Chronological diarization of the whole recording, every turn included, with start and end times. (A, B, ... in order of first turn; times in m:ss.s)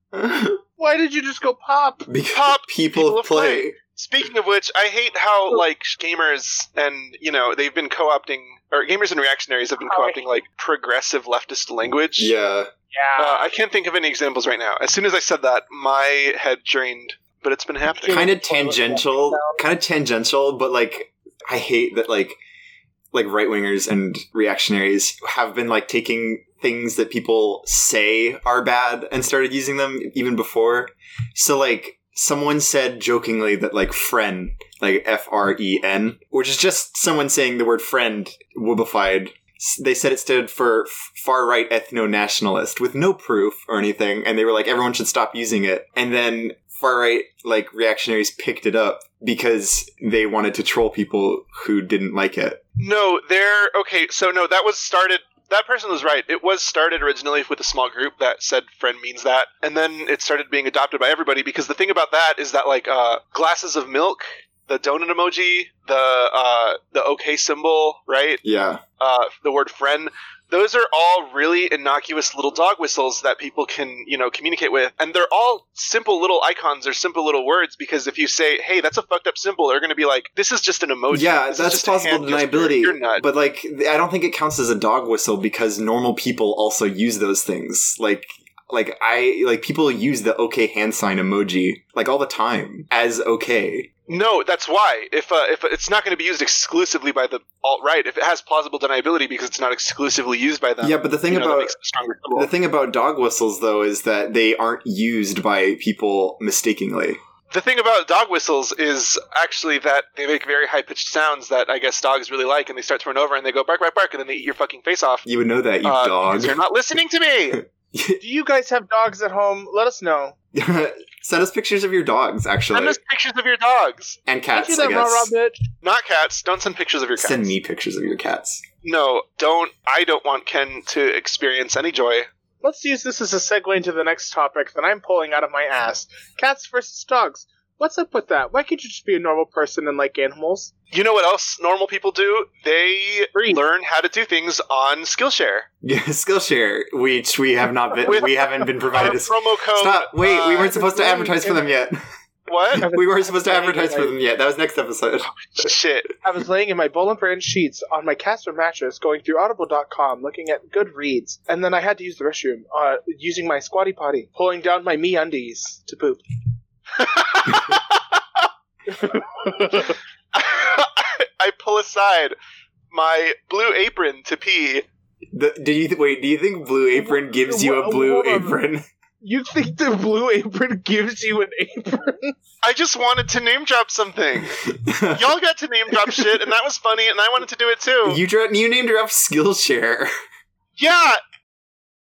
0:00.1-0:00.6 A
0:00.8-0:02.1 B
0:02.1-0:03.8 A
0:02.3-0:12.3 C
0:09.8-0:10.3 B
0:12.2-0:12.7 A
0:12.9-0:13.5 B
0:13.2-0:18.2 C
0:17.9-0:19.6 B
0:18.1-0:22.4 A
0:23.1-0:52.6 A
0:52.8-1:08.4 C
1:08.4-1:08.8 A
1:09.0-1:23.2 C
1:21.1-1:33.9 A
1:34.1-1:42.5 C
1:40.8-1:41.7 A
1:42.4-1:47.2 A
1:47.5-1:55.2 C
1:55.2-1:56.6 A
1:55.8-1:57.6 C
1:57.9-1:58.2 A
1:58.2-2:00.4 B
2:00.5-2:03.0 A
2:02.7-2:04.2 C
2:04.3-2:05.3 A
2:04.5-2:05.7 B
2:05.8-2:07.5 C
2:07.2-2:08.6 A
2:08.8-2:12.3 C
2:12.6-2:20.7 B
2:20.9-2:25.7 C
2:23.3-2:23.6 B
2:25.8-2:32.0 A
2:28.0-2:28.3 B
2:28.0-2:30.8 C
2:30.6-2:31.7 B
2:32.5-2:32.9 C
2:32.7-2:35.7 A
2:32.8-2:34.2 B
2:35.5-2:36.1 C
2:36.2-2:46.2 B
2:47.0-2:48.0 C
2:48.9-2:50.0 B
2:49.8-2:52.4 C
2:52.9-2:54.8 C
2:55.3-2:58.8 A
2:57.0-2:58.6 B
2:59.2-3:02.4 B
3:02.6-3:04.5 C
3:04.6-3:05.3 A
3:05.2-3:08.2 C
3:06.0-3:06.3 B
3:08.0-3:10.1 A
3:10.8-3:11.2 C